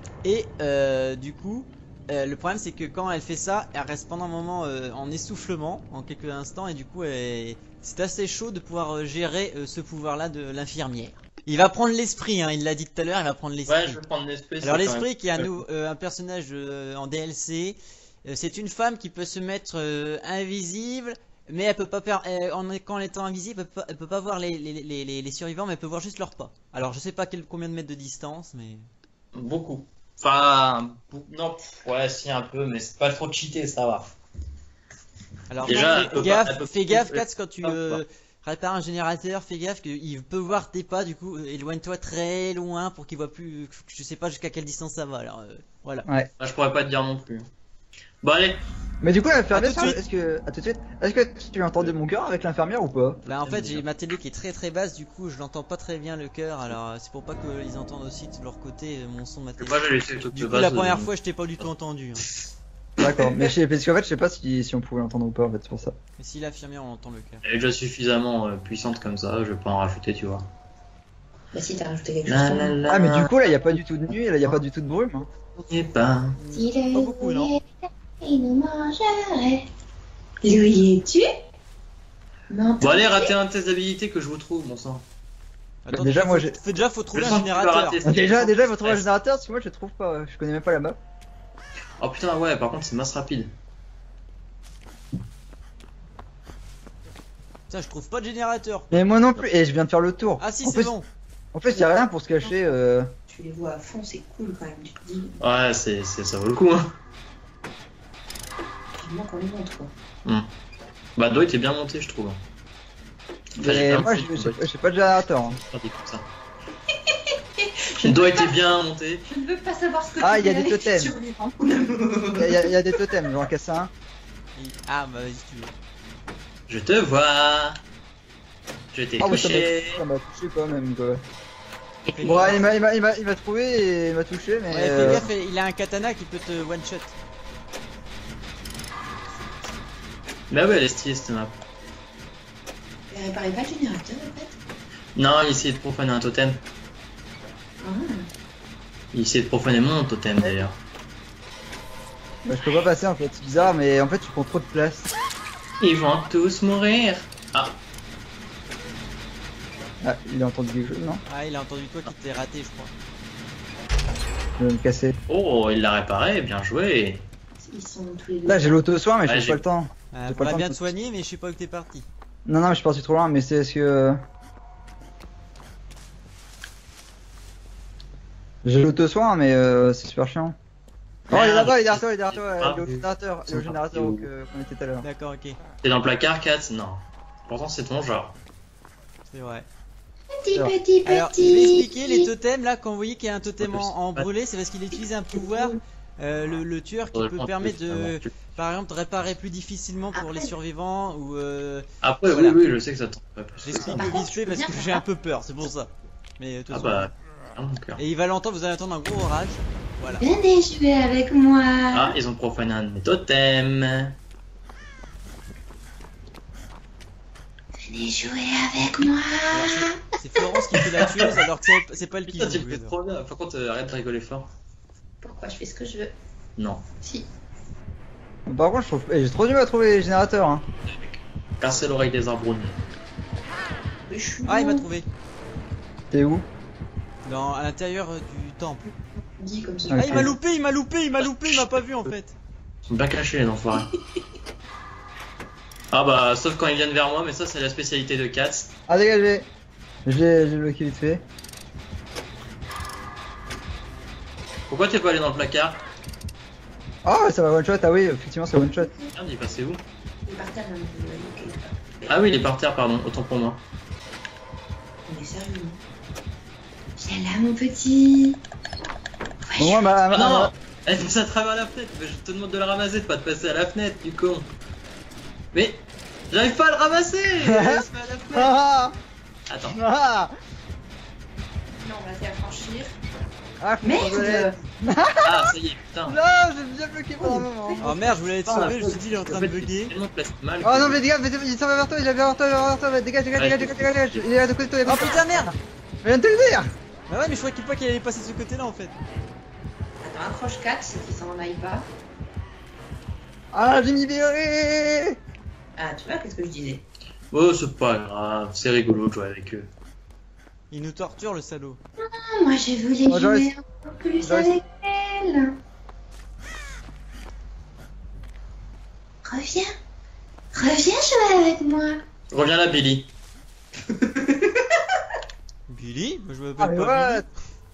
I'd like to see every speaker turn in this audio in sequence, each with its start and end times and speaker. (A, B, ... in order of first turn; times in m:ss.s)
0:00.2-0:14.0 A
0:13.7-0:15.5 B
0:14.6-0:28.8 A
0:29.3-0:34.2 B
0:35.5-0:46.1 A
0:35.6-0:38.0 B
0:46.4-0:47.5 B
0:48.2-0:48.6 B
0:49.0-0:53.2 C
0:49.5-0:50.0 A
0:53.2-1:02.2 A
0:53.4-0:53.8 B
0:59.6-1:01.1 B
1:03.0-1:05.9 C
1:06.2-1:07.4 A
1:07.4-1:10.5 B
1:11.5-1:12.8 D
1:12.2-1:13.4 B
1:12.9-1:15.3 C
1:15.6-1:16.4 B
1:16.4-1:17.6 A
1:16.5-1:17.6 D
1:18.2-1:19.6 D
1:20.4-1:21.3 D
1:22.5-1:23.3 D
1:22.8-1:25.0 B
1:25.8-1:28.0 A
1:25.9-1:26.6 C
1:27.1-1:29.1 B
1:28.0-1:31.0 C
1:32.0-1:33.5 B
1:37.7-1:38.9 A
1:38.9-1:40.9 C
1:40.4-1:41.1 A
1:41.5-1:43.1 C
1:43.3-1:45.4 D
1:45.4-1:46.9 B
1:49.0-1:49.9 D
1:51.2-1:52.4 B
1:53.6-1:55.6 C
1:53.6-1:54.6 B
1:55.4-1:56.2 B
1:57.1-1:58.7 D
1:58.0-1:59.3 B
1:59.3-2:03.0 D
2:00.2-2:01.1 C
2:02.4-2:03.9 C
2:04.6-2:05.7 A
2:06.7-2:07.8 B
2:08.9-2:10.0 B
2:09.2-2:11.2 C
2:12.1-2:12.6 A
2:12.2-2:15.3 C
2:14.7-2:17.1 A
2:15.0-2:15.3 B
2:19.3-2:19.7 D
2:20.5-2:21.6 B
2:23.1-2:24.6 D
2:25.2-2:26.6 B
2:27.8-2:28.3 D
2:29.1-2:30.8 B
2:32.5-2:35.1 C
2:35.8-2:37.8 B
2:40.0-2:41.2 C
2:41.3-2:42.9 A
2:44.6-2:45.2 C
2:45.3-2:47.2 B
2:47.6-2:48.8 D
2:48.4-2:50.9 C
2:49.2-2:49.6 B
2:50.1-2:52.1 A
2:52.4-2:54.2 C
2:58.6-3:00.6 C
3:01.3-3:04.3 B
3:01.3-3:05.0 C
3:05.0-3:05.6 A
3:05.8-3:08.3 B
3:09.3-3:09.7 A
3:10.3-3:12.3 D
3:11.0-3:22.6 A
3:13.6-3:14.2 B
3:17.1-3:18.4 B
3:20.1-3:20.5 D
3:22.0-3:24.1 B
3:23.6-3:27.1 A
3:23.9-3:25.0 D
3:26.7-3:28.0 B
3:28.0-3:30.3 A
3:30.1-3:32.2 D
3:31.9-3:34.2 B
3:37.8-3:40.0 D
3:39.5-3:42.9 A
3:42.3-3:44.5 B
3:45.2-3:46.1 D
3:46.6-3:46.8 B
3:47.0-3:47.3 D
3:48.4-3:50.6 C
3:50.9-3:52.8 B
3:54.1-3:54.9 D
3:54.4-3:55.1 A
3:56.1-3:56.4 C
3:57.2-3:58.9 A
3:59.2-4:00.3 D
3:59.9-4:00.3 C
4:00.0-4:02.3 A
4:01.4-4:01.7 B
4:02.9-4:03.9 B
4:05.9-4:08.7 B
4:08.9-4:09.5 C
4:10.0-4:11.2 C
4:14.7-4:15.8 B
4:17.0-4:18.9 C
4:19.1-4:19.8 B
4:20.3-4:22.2 D
4:22.1-4:23.6 B
4:25.1-4:25.8 D
4:27.0-4:28.4 D
4:29.4-4:29.9 D
4:29.6-4:30.5 C
4:30.1-4:34.5 B
4:35.5-4:38.5 B
4:37.4-4:38.9 C
4:39.5-4:39.8 B
4:39.7-4:40.3 C
4:41.8-4:43.0 D
4:43.6-4:45.5 C
4:43.8-4:44.6 D
4:45.2-4:46.2 B
4:46.1-4:47.9 C
4:47.2-4:48.0 D
4:47.8-4:49.9 A
4:48.4-4:51.0 B
4:50.6-4:56.7 C
4:53.3-4:54.2 B
4:54.8-4:55.5 A
4:57.1-4:59.0 A
5:00.0-5:01.9 D
5:03.5-5:05.2 C
5:05.7-5:06.8 D
5:07.3-5:09.7 B
5:10.7-5:11.8 A
5:12.0-5:15.5 D
5:13.1-5:13.5 C
5:14.2-5:14.6 C
5:19.2-5:19.7 D
5:20.5-5:22.0 D
5:22.3-5:23.1 B
5:23.9-5:24.8 D
5:25.7-5:27.2 A
5:26.6-5:27.2 C